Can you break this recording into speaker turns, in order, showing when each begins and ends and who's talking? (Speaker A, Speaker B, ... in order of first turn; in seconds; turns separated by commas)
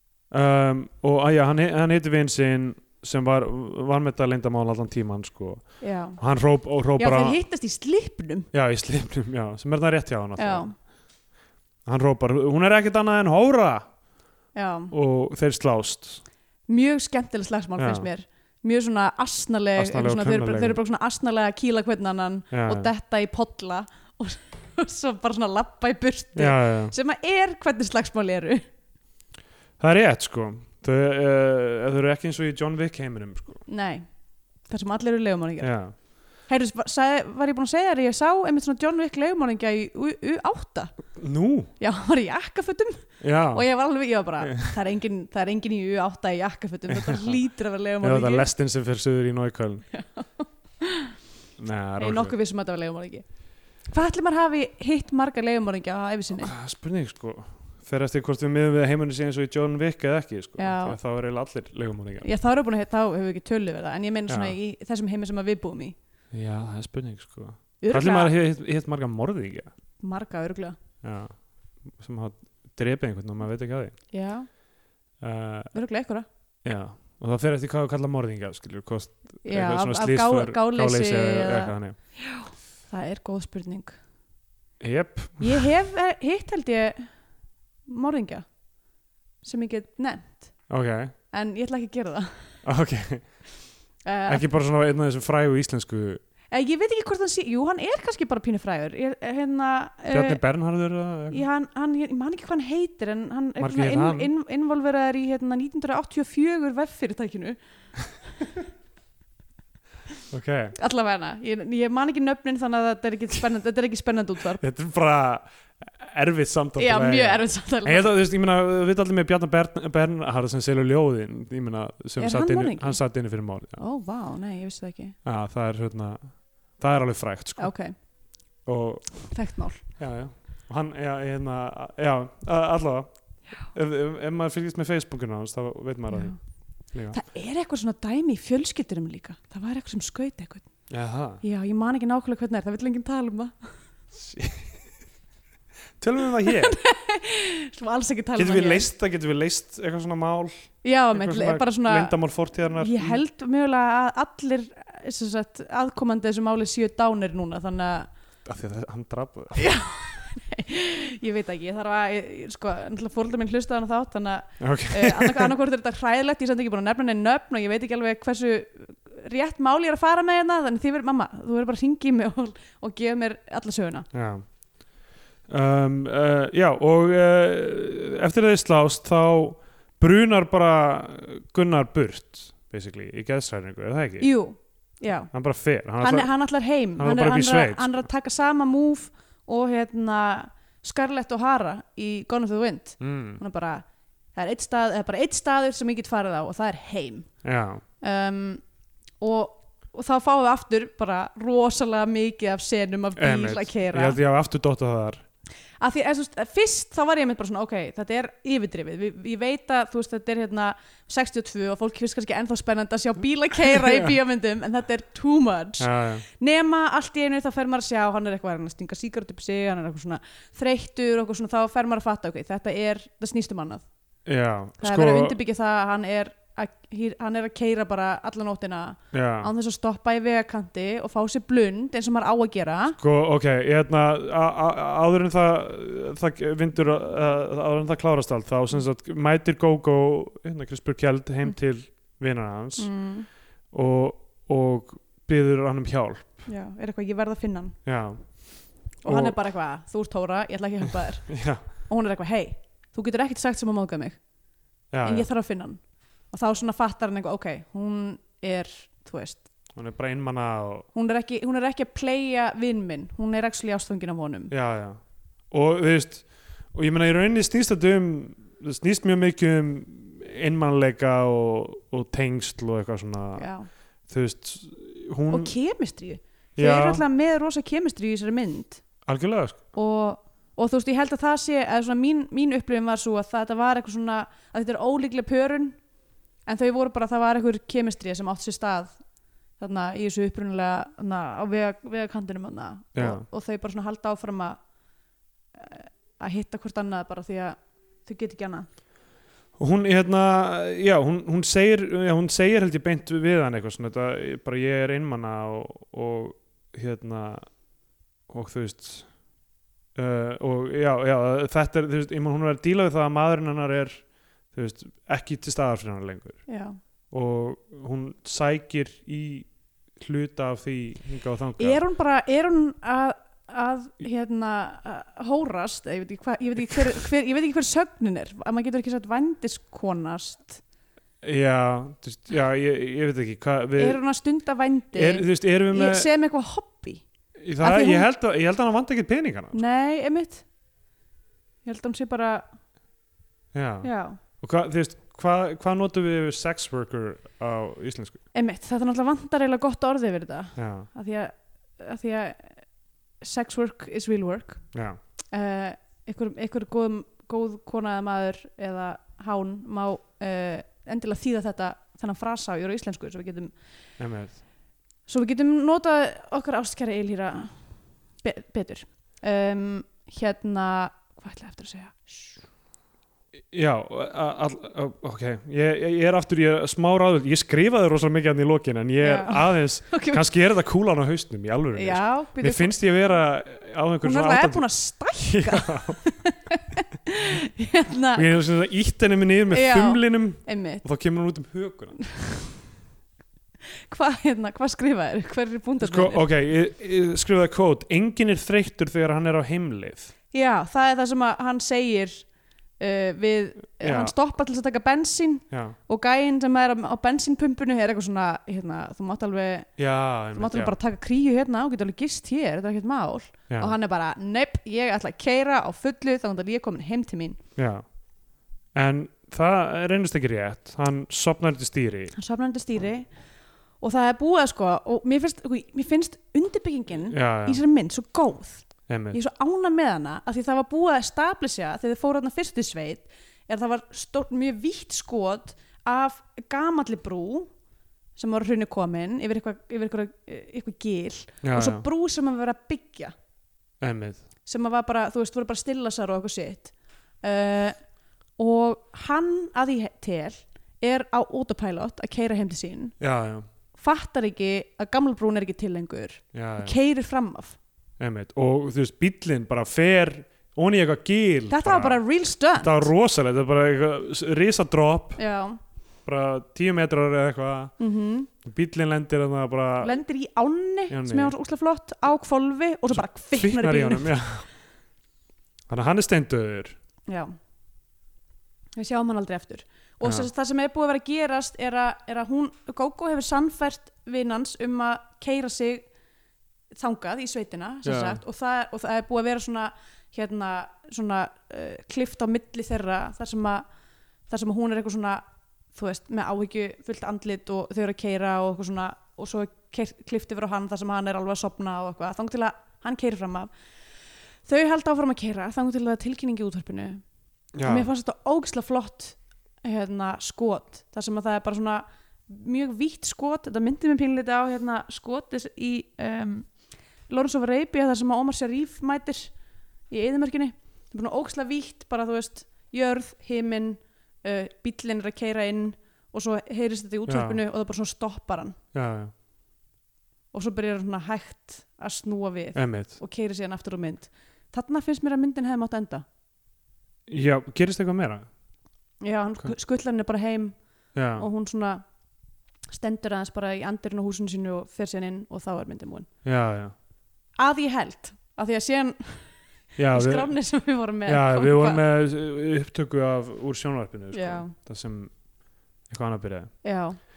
Speaker A: 0.3-7.4, Speaker B: 5.8-6.2, Speaker B: 7.0-8.5, Speaker A: 8.5-10.7, Speaker B: 10.4-10.7, Speaker A: 11.8-13.9, Speaker B: 14.5-14.9, Speaker A: 14.9-16.2, Speaker B: 16.7-28.6, Speaker A: 17.8-18.1, Speaker A: 19.8-20.8, Speaker A: 22.5-22.9, Speaker A: 26.4-26.9, Speaker A: 29.8-33.6, Speaker B: 33.6-34.0, Speaker B: 34.6-41.1, Speaker A: 35.6-35.9, Speaker A: 41.1-41.7, Speaker B: 41.8-48.5, Speaker A: 43.2-43.7, Speaker A: 44.4-44.7, Speaker A: 47.0-47.4, Speaker A: 48.0-49.9, Speaker B: 49.9-51.1, Speaker A: 51.6-52.3, Speaker B: 52.0-53.2, Speaker B: 53.9-56.5, Speaker A: 56.4-62.3, Speaker B: 60.6-61.0, Speaker B: 62.2-65.9, Speaker A: 64.3-64.5, Speaker A: 66.3-69.7, Speaker B: 67.8-68.3, Speaker B: 70.0-70.8, Speaker A: 71.0-74.0, Speaker B: 74.1-74.5, Speaker A: 75.2-75.7, Speaker B: 75.7-76.2, Speaker A: 76.6-82.0, Speaker B: 79.4-84.0, Speaker A: 84.8-85.7, Speaker B: 85.4-87.1, Speaker B: 87.8-88.5, Speaker B: 89.4-90.6, Speaker A: 90.7-91.1, Speaker B: 91.3-92.6, Speaker A: 92.6-93.5, Speaker B: 94.0-94.4, Speaker A: 94.3-96.2, Speaker B: 96.5-100.4, Speaker A: 100.1-101.4, Speaker B: 101.3-107.6, Speaker A: 103.6-104.3, Speaker A: 110.3-110.7, Speaker B: 110.8-114.6, Speaker A: 114.6-123.8, Speaker B: 116.8-118.2, Speaker B: 122.2-123.0, Speaker B: 123.8-125.2, Speaker A: 125.2-127.7, Speaker B: 127.6-127.9, Speaker A: 128.6-129.4, Speaker B: 129.3-129.8, Speaker A: 129.9-136.3, Speaker B: 136.1-136.4, Speaker A: 136.9-137.2, Speaker B: 137.1-140.7, Speaker A: 140.9-141.4, Speaker B: 141.4-143.7, Speaker A: 144.1-144.8, Speaker A: 146.0-146.8, Speaker B: 146.4-148.9, Speaker A: 148.4-153.2, Speaker B: 150.8-152.2, Speaker B: 152.7-158.1, Speaker A: 158.4-159.8, Speaker B: 159.5-174.1, Speaker A: 164.6-165.5, Speaker A: 174.1-174.8, Speaker A: 175.5-184.3, Speaker B: 184.2-185.3, Speaker A: 185.3-186.3, Speaker B: 186.0-197.3, Speaker A: 186.9-188.1, Speaker A: 193.0-193.4, Speaker A: 197.4-197.8, Speaker B: 198.0-198.6, Speaker B: 199.2-204.2, Speaker A: 203.2-205.2, Speaker B: 205.8-223.8, Speaker A: 213.7-214.1, Speaker A: 215.8-216.2, Speaker A: 224.2-225.4, Speaker B: 224.8-233.0, Speaker A: 229.1-229.5, Speaker A: 232.9-242.9, Speaker B: 242.8-243.3, Speaker A: 243.7-246.4, Speaker B: 246.4-247.8, Speaker A: 247.8-249.4, Speaker B: 249.0-254.2, Speaker A: 251.3-251.6, Speaker A: 254.9-255.3, Speaker B: 255.0-259.4, Speaker A: 259.7-260.9, Speaker B: 260.9-264.5, Speaker A: 264.5-265.0, Speaker A: 265.5-273.5, Speaker B: 273.4-273.7, Speaker A: 274.1-275.5, Speaker B: 275.3-278.8, Speaker A: 276.6-277.0, Speaker A: 279.0-279.6, Speaker B: 279.7-285.8, Speaker B: 286.4-289.0, Speaker B: 289.6-294.6, Speaker A: 292.9-293.2, Speaker B: 295.5-298.7, Speaker A: 299.6-307.6, Speaker A: 308.3-309.1, Speaker A: 309.9-316.4, Speaker B: 316.5-316.8, Speaker A: 317.1-321.8, Speaker B: 321.6-330.6, Speaker A: 331.2-334.0, Speaker B: 333.8-337.0, Speaker A: 334.9-336.1, Speaker A: 337.4-339.6, Speaker B: 337.6-338.1, Speaker B: 339.5-340.4, Speaker B: 341.6-342.4, Speaker A: 343.5-348.2, Speaker B: 343.8-344.2, Speaker B: 348.3-352.6, Speaker A: 350.6-350.9, Speaker B: 353.2-354.7, Speaker A: 354.7-355.0, Speaker B: 355.3-363.5, Speaker A: 364.0-364.4, Speaker B: 365.1-372.4, Speaker A: 373.5-386.0, Speaker B: 379.0-380.2, Speaker B: 381.8-382.8, Speaker B: 384.0-388.3, Speaker A: 388.1-392.0, Speaker B: 389.5-390.8, Speaker B: 393.9-396.2, Speaker A: 395.8-400.1, Speaker B: 400.3-402.3, Speaker B: 402.8-409.8, Speaker A: 403.8-404.1, Speaker A: 405.5-405.8, Speaker A: 409.8-410.7, Speaker B: 410.3-417.4, Speaker A: 417.6-417.8, Speaker A: 418.7-422.1, Speaker B: 422.1-423.1, Speaker B: 423.8-437.5, Speaker A: 427.0-427.6, Speaker A: 428.9-429.2, Speaker B: 438.1-443.1, Speaker A: 441.4-441.8, Speaker A: 443.8-444.2, Speaker B: 444.4-447.8, Speaker B: 448.4-452.9, Speaker A: 453.0-453.5, Speaker B: 453.7-457.6, Speaker A: 456.3-456.7, Speaker A: 458.0-462.0, Speaker B: 461.5-462.9, Speaker A: 462.6-465.2, Speaker B: 465.2-465.6, Speaker A: 466.1-467.7, Speaker B: 467.8-468.3, Speaker A: 468.4-470.0, Speaker B: 469.8-474.1, Speaker A: 470.9-471.3, Speaker A: 472.9-474.5, Speaker A: 475.7-476.8, Speaker B: 477.1-477.3, Speaker B: 478.8-485.9, Speaker A: 480.0-480.3, Speaker B: 486.7-493.6, Speaker A: 487.8-488.2, Speaker B: 494.3-503.5, Speaker B: 504.4-507.0, Speaker A: 507.5-507.9, Speaker B: 507.6-516.5, Speaker B: 517.1-519.3, Speaker B: 519.9-528.6, Speaker A: 527.1-527.4, Speaker A: 528.7-529.1, Speaker B: 530.3-536.0, Speaker A: 532.5-533.0, Speaker A: 537.1-538.3, Speaker B: 539.0-540.6, Speaker A: 540.9-541.2, Speaker B: 541.1-541.8, Speaker B: 542.7-546.1, Speaker A: 546.2-546.7, Speaker B: 547.4-549.4, Speaker A: 549.8-550.3, Speaker B: 549.9-551.8, Speaker A: 551.0-555.1, Speaker B: 554.1-554.5, Speaker A: 555.9-556.6, Speaker B: 556.6-557.0